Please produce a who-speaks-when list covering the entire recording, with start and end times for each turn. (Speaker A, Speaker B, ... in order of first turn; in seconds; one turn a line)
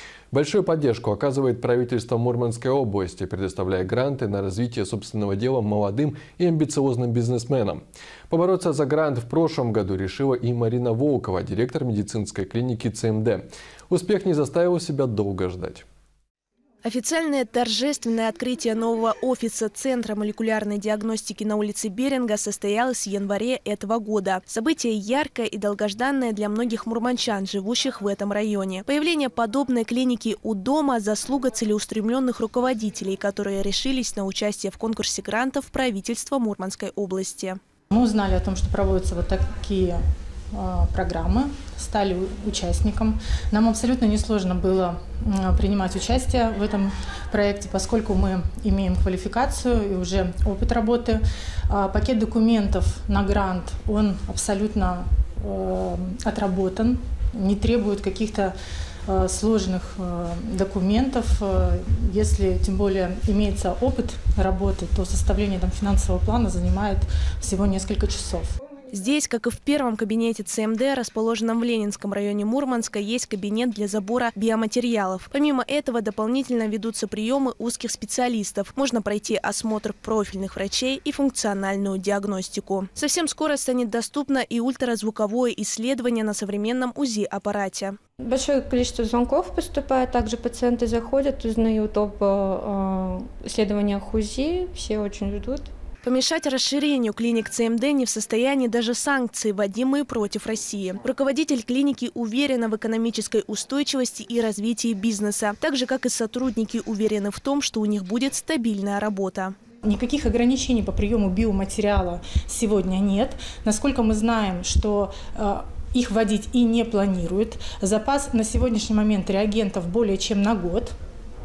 Speaker A: 0.3-15.8
Speaker B: 16.8-37.6
Speaker C: 37.9-40.0
Speaker C: 40.5-58.5
Speaker C: 59.0-68.5
Speaker B: 68.9-88.0
Speaker D: 88.2-95.7
Speaker B: 96.0-109.5
Speaker C: 109.8-120.9